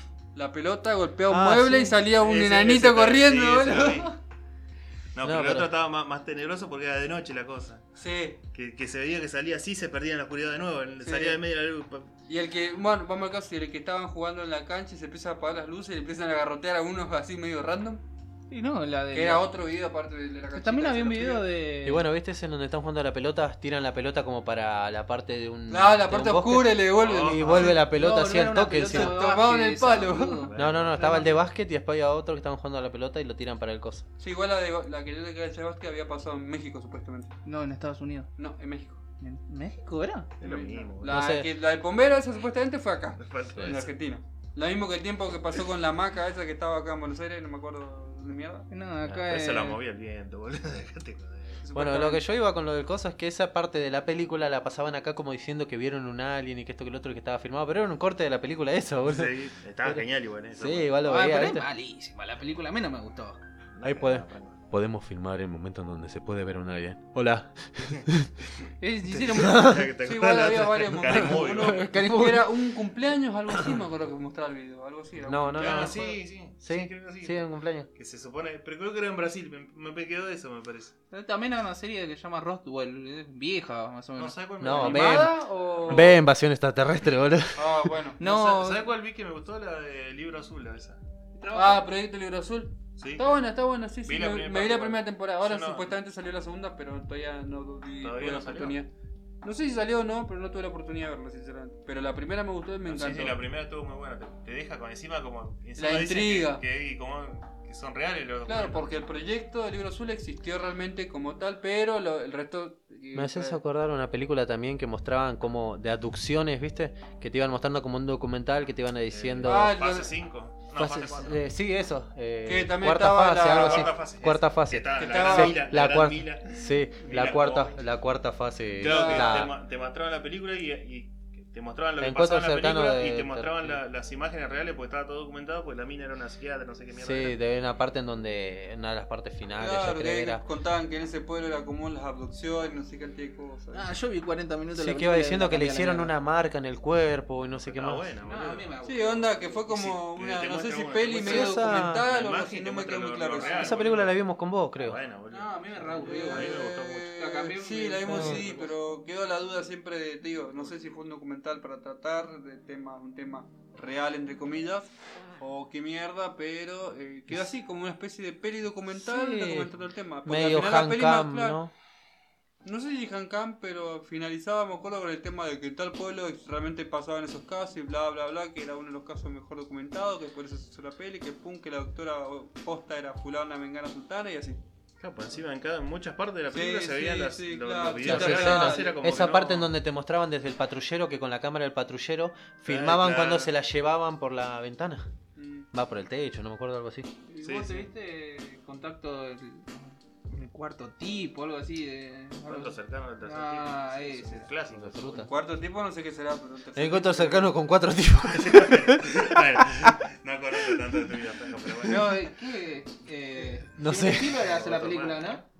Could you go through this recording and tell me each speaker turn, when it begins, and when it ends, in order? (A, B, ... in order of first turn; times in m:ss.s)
0:00.3-0:04.2 A
0:01.3-0:02.0 B
0:02.1-0:04.1 C
0:05.1-0:07.8 C
0:05.2-0:05.7 B
0:08.0-0:08.4 A
0:08.5-0:12.1 C
0:11.0-0:11.4 A
0:12.3-0:18.0 A
0:18.5-0:19.4 D
0:19.1-0:21.4 A
0:20.6-0:22.1 D
0:21.8-0:29.2 B
0:25.7-0:27.8 A
0:27.0-0:27.8 C
0:27.8-0:31.4 D
0:28.9-0:30.4 A
0:30.2-0:31.2 C
0:30.6-0:34.0 B
0:34.2-0:37.3 A
0:37.4-0:38.3 D
0:38.4-0:39.0 A
0:39.2-0:40.3 D
0:40.4-0:41.2 C
0:40.4-0:48.6 A
0:41.0-0:41.5 B
0:43.2-0:43.9 C
0:43.5-0:43.8 B
0:48.7-0:49.8 D
0:49.2-0:51.6 C
0:51.6-0:52.2 A
0:51.7-1:01.7 B
0:59.0-1:00.9 C
1:01.0-1:03.4 D
1:03.7-1:04.6 C
1:03.8-1:08.3 B
1:08.8-1:09.8 D
1:09.1-1:11.9 C
1:09.3-1:09.9 B
1:10.0-1:16.1 A
1:11.1-1:12.4 B
1:15.2-1:17.9 B
1:15.5-1:20.9 C
1:21.1-1:24.4 D
1:24.2-1:26.1 C
1:24.6-1:27.9 B
1:24.7-1:26.1 A
1:27.6-1:28.2 A
1:28.2-1:28.8 D
1:28.2-1:31.0 C
1:31.4-1:31.8 D
1:31.5-1:38.9 A
1:33.0-1:33.3 C
1:34.0-1:35.9 C
1:38.0-1:38.8 C
1:39.4-1:43.4 A
1:42.8-1:48.9 C
1:45.8-1:46.6 A
1:48.4-1:53.6 A
1:53.1-1:59.7 B
1:59.1-2:01.4 C
1:59.4-2:00.1 A
2:00.7-2:09.5 B
2:02.4-2:03.9 A
2:03.4-2:07.8 C
2:05.0-2:05.6 A
2:08.8-2:17.4 C
2:08.8-2:09.5 A
2:12.0-2:13.8 B
2:16.9-2:20.4 B
2:19.6-2:23.9 A
2:23.7-2:26.1 D
2:24.7-2:28.1 B
2:27.6-2:34.2 C
2:28.2-2:29.4 D
2:28.8-2:33.8 A
2:31.2-2:32.0 B
2:33.4-2:35.0 B
2:34.8-2:37.1 C
2:35.3-2:36.6 D
2:36.1-2:51.6 A
2:37.2-2:38.7 D
2:38.1-2:38.4 B
2:48.9-2:49.7 B
2:50.2-2:51.7 B
2:52.6-3:04.6 A
3:05.0-3:09.7 C
3:06.5-3:09.4 A
3:08.0-3:15.1 B
3:12.6-3:13.5 C
3:15.4-3:15.7 A
3:15.7-3:17.1 B
3:17.3-3:24.5 D
3:17.4-3:17.9 C
3:22.4-3:25.3 C
3:24.7-3:25.3 B
3:25.1-3:27.5 A
3:26.8-3:29.9 B
3:28.3-3:32.2 C
3:31.8-3:35.4 D
3:33.8-3:34.4 B
3:34.4-3:35.4 C